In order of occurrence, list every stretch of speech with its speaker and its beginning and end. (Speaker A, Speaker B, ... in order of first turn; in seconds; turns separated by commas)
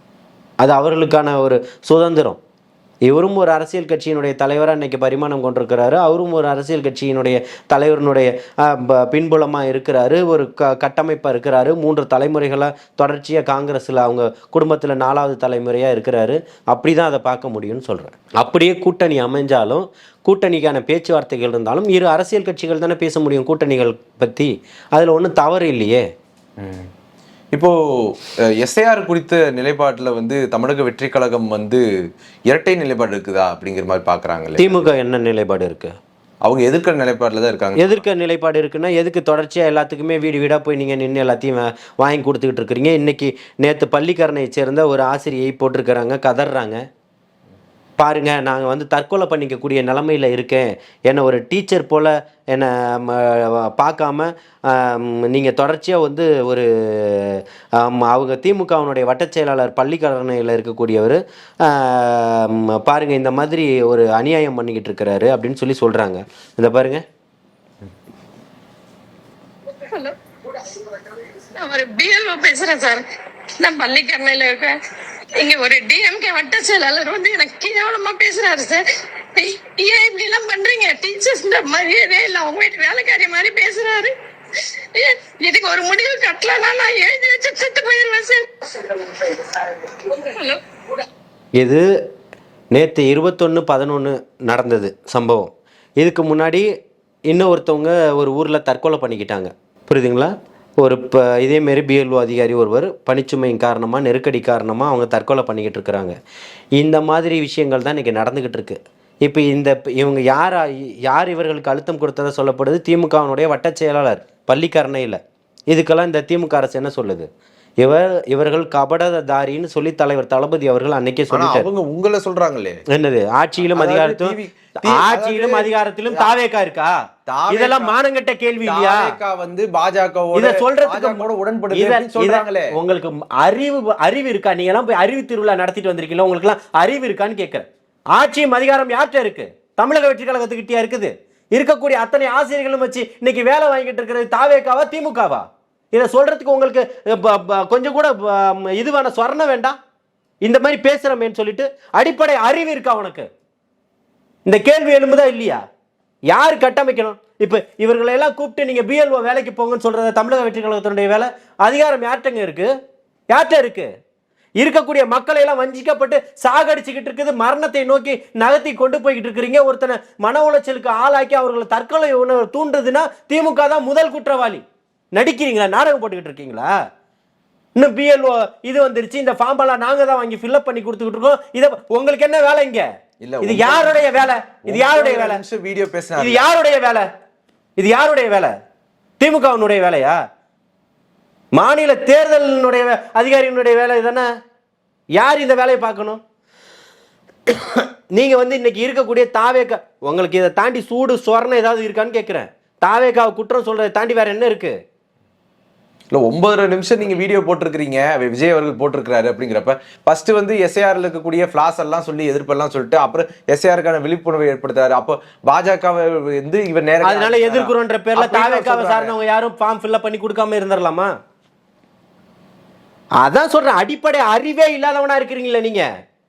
Speaker A: 0.6-2.4, Speaker A: 3.0-26.0, Speaker B: 26.6-26.9, Speaker B: 27.5-31.8, Speaker B: 32.5-34.9, Speaker A: 34.6-35.9, Speaker B: 36.4-38.0, Speaker A: 37.8-46.8, Speaker A: 48.0-67.0, Speaker C: 69.9-73.0, Speaker C: 73.6-74.7, Speaker C: 75.4-78.8, Speaker C: 79.3-91.0, Speaker A: 91.6-91.8, Speaker A: 92.7-96.7, Speaker A: 97.3-106.2, Speaker A: 106.8-115.2, Speaker A: 115.7-117.3, Speaker A: 117.8-121.7, Speaker B: 121.3-122.8, Speaker A: 122.9-127.0, Speaker B: 123.7-126.3, Speaker B: 127.3-128.0, Speaker A: 127.5-129.1, Speaker B: 128.6-132.7, Speaker A: 130.3-149.8, Speaker A: 150.4-153.3, Speaker A: 154.4-155.6, Speaker A: 156.3-162.7, Speaker A: 163.3-163.9, Speaker A: 164.6-174.6, Speaker A: 175.1-176.7, Speaker A: 177.8-182.9, Speaker B: 183.2-184.1, Speaker A: 183.4-185.4, Speaker B: 184.6-186.5, Speaker A: 186.2-187.1, Speaker A: 187.8-188.5, Speaker A: 189.2-190.2, Speaker A: 191.5-194.3, Speaker A: 195.1-196.2, Speaker A: 197.5-204.8, Speaker B: 206.1-219.1, Speaker A: 217.0-221.1, Speaker A: 223.2-225.8